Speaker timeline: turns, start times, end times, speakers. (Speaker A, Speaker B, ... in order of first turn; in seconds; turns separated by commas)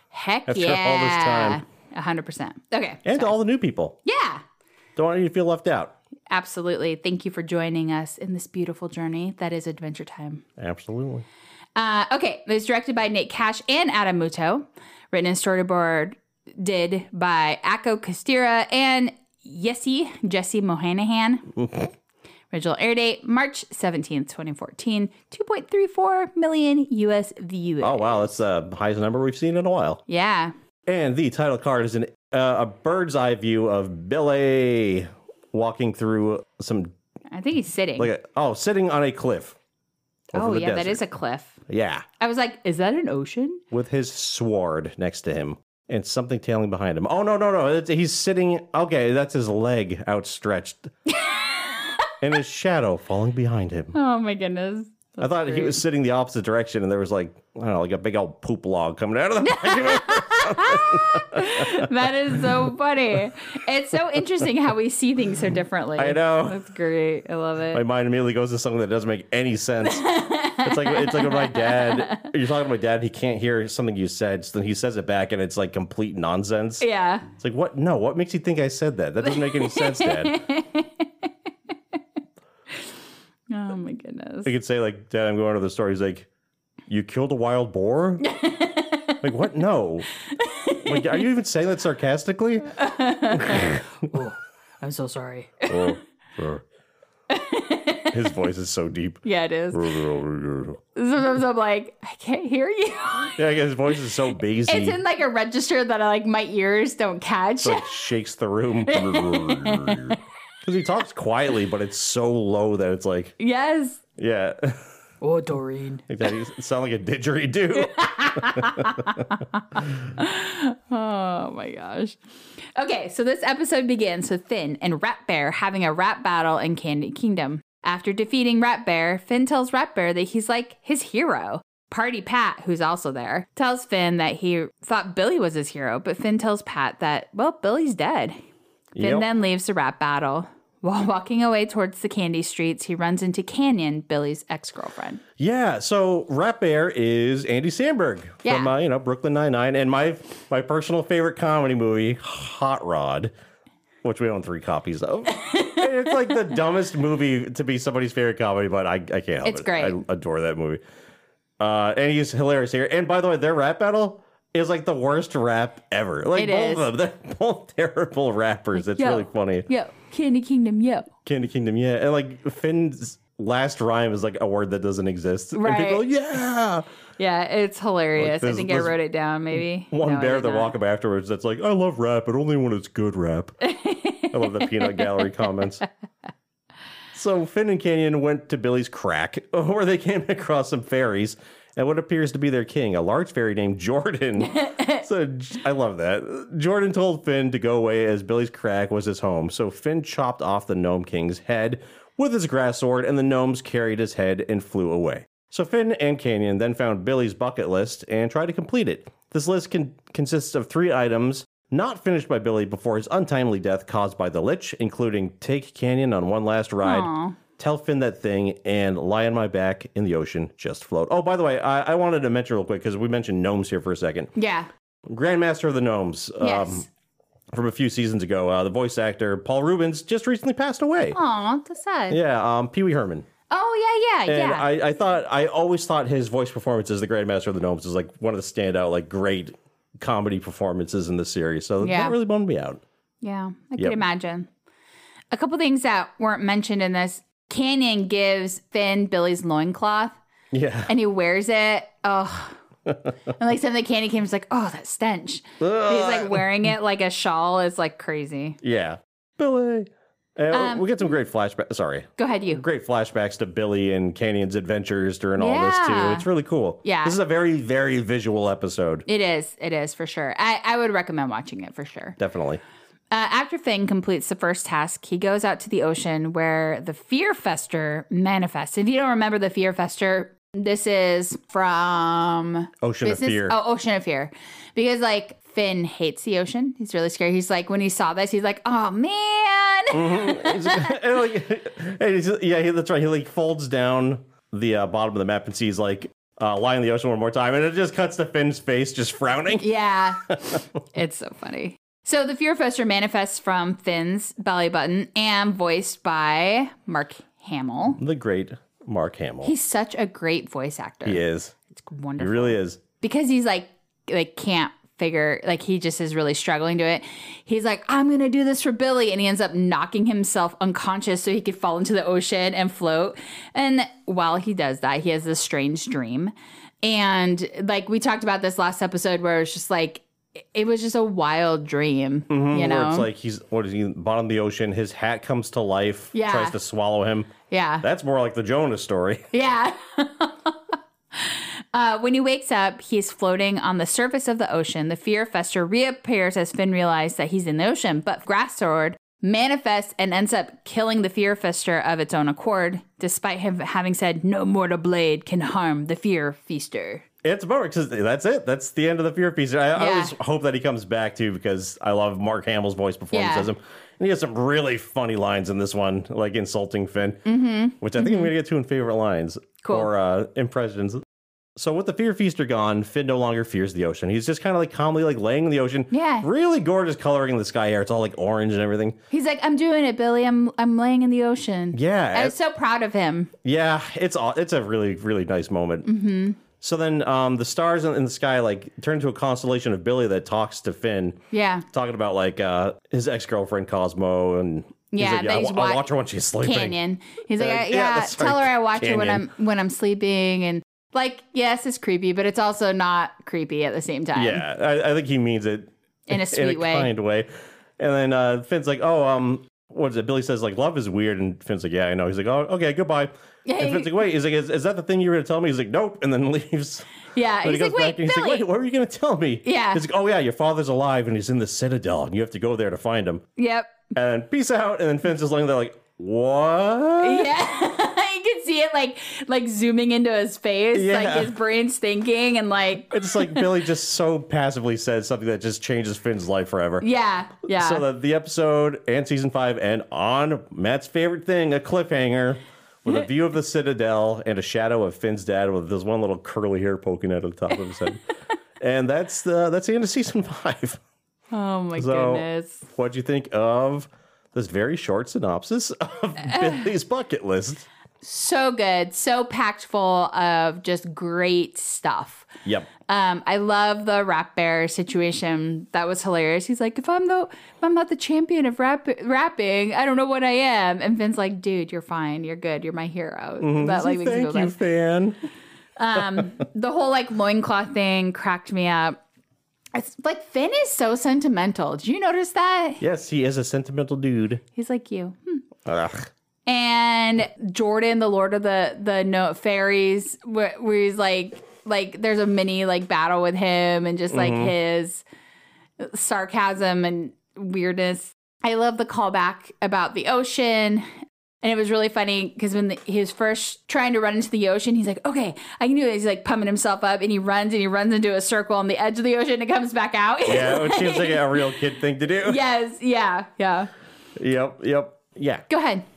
Speaker A: 0.1-3.4, Speaker B: 0.5-1.6, Speaker B: 3.0-4.0, Speaker A: 4.0-4.4, Speaker B: 5.0-5.9, Speaker A: 6.3-10.4, Speaker B: 10.6-11.2, Speaker A: 11.8-21.6, Speaker B: 21.6-21.9, Speaker A: 22.5-28.3, Speaker B: 27.8-30.0, Speaker A: 30.1-30.5, Speaker B: 30.9-36.9, Speaker A: 37.3-38.1, Speaker B: 38.0-39.6, Speaker B: 40.3-41.0, Speaker A: 40.3-41.6, Speaker B: 41.7-42.1, Speaker A: 42.2-43.6, Speaker B: 43.7-50.9, Speaker A: 51.1-52.0, Speaker B: 52.2-54.0, Speaker A: 53.9-55.8, Speaker B: 55.2-62.5, Speaker A: 59.4-67.8, Speaker B: 66.0-66.6, Speaker B: 67.7-70.1, Speaker A: 69.8-72.3, Speaker B: 70.6-80.4, Speaker A: 76.8-77.3, Speaker A: 79.2-81.3, Speaker A: 83.5-84.5, Speaker B: 84.5-86.3, Speaker B: 86.9-88.2, Speaker A: 88.2-89.2, Speaker B: 89.2-90.1, Speaker A: 90.3-91.2, Speaker B: 90.8-92.8, Speaker A: 92.7-93.8, Speaker B: 93.3-93.8, Speaker C: 94.1-95.7, Speaker B: 95.7-96.6, Speaker A: 97.3-98.2, Speaker B: 98.1-100.8, Speaker A: 99.2-99.9, Speaker A: 101.0-103.4, Speaker B: 103.4-105.0, Speaker A: 104.7-107.8, Speaker B: 107.6-113.4, Speaker A: 108.9-110.2, Speaker A: 113.4-114.0, Speaker B: 114.2-114.9, Speaker C: 115.2-116.0, Speaker B: 116.1-119.2, Speaker A: 117.8-122.2, Speaker A: 122.8-138.4, Speaker B: 138.9-139.3, Speaker A: 139.0-145.2, Speaker B: 145.4-153.3, Speaker A: 148.4-148.7, Speaker B: 154.0-160.8, Speaker A: 155.4-156.3, Speaker A: 159.4-160.0, Speaker B: 161.6-169.7, Speaker A: 166.3-166.9, Speaker A: 168.8-171.1, Speaker B: 171.2-176.8, Speaker A: 175.5-176.1, Speaker A: 177.2-180.7, Speaker B: 178.2-178.9, Speaker B: 179.5-183.6, Speaker A: 183.6-185.3, Speaker B: 184.3-185.8, Speaker B: 187.1-224.3, Speaker A: 194.4-195.1, Speaker A: 216.8-217.4, Speaker A: 224.4-224.7, Speaker B: 225.1-226.9, Speaker A: 226.4-226.9, Speaker B: 227.5-231.2, Speaker A: 231.1-232.2, Speaker B: 232.1-233.3, Speaker A: 233.5-234.7, Speaker B: 234.3-242.8, Speaker A: 241.8-242.2, Speaker A: 243.2-244.5, Speaker A: 245.3-250.2, Speaker B: 250.5-250.9, Speaker A: 250.9-252.6, Speaker A: 253.3-258.6, Speaker B: 255.6-256.6, Speaker B: 258.6-269.1, Speaker A: 260.5-261.1, Speaker A: 262.2-262.6, Speaker A: 265.4-266.3, Speaker A: 266.8-267.2, Speaker A: 269.1-272.2, Speaker B: 272.2-272.6, Speaker A: 273.1-291.0, Speaker B: 282.8-283.6, Speaker B: 289.9-299.7, Speaker A: 299.6-308.0, Speaker B: 300.3-300.6, Speaker B: 308.0-309.5, Speaker A: 309.4-333.1, Speaker B: 311.1-311.6, Speaker B: 312.2-312.8, Speaker B: 332.3-339.3, Speaker A: 336.1-336.6, Speaker A: 337.5-337.9, Speaker A: 339.3-357.0, Speaker B: 357.2-367.2, Speaker A: 359.8-360.1, Speaker A: 363.1-363.5, Speaker A: 367.2-368.3, Speaker B: 367.8-371.0, Speaker A: 369.6-369.9, Speaker B: 371.6-379.0, Speaker A: 375.9-376.3, Speaker A: 379.1-383.3, Speaker B: 381.7-382.4, Speaker B: 383.4-385.9, Speaker A: 385.9-386.4, Speaker B: 386.6-391.2, Speaker A: 391.3-391.7, Speaker B: 391.7-396.8, Speaker A: 394.9-395.9, Speaker A: 396.4-404.4, Speaker B: 397.4-399.3, Speaker B: 404.1-416.9, Speaker A: 406.1-406.9, Speaker A: 413.5-414.0, Speaker A: 417.1-418.4, Speaker B: 417.4-423.2, Speaker A: 419.4-419.8, Speaker A: 423.4-423.8, Speaker B: 423.9-427.3, Speaker A: 427.0-433.5, Speaker B: 430.7-431.4, Speaker B: 432.9-436.9, Speaker A: 436.8-437.9, Speaker B: 437.4-448.0, Speaker B: 448.6-450.8, Speaker A: 451.3-452.7, Speaker B: 451.8-457.7, Speaker A: 456.3-456.6, Speaker A: 458.0-462.3, Speaker A: 462.9-474.6, Speaker B: 473.4-475.2, Speaker A: 475.8-479.0, Speaker B: 476.0-476.2, Speaker A: 479.7-482.8, Speaker B: 482.8-484.4, Speaker A: 484.5-485.4, Speaker B: 485.6-486.1, Speaker A: 486.5-495.0, Speaker B: 494.1-494.5, Speaker A: 495.8-500.9, Speaker A: 501.4-511.6, Speaker B: 510.3-512.4, Speaker A: 512.2-513.7, Speaker B: 514.2-515.5, Speaker A: 515.5-515.9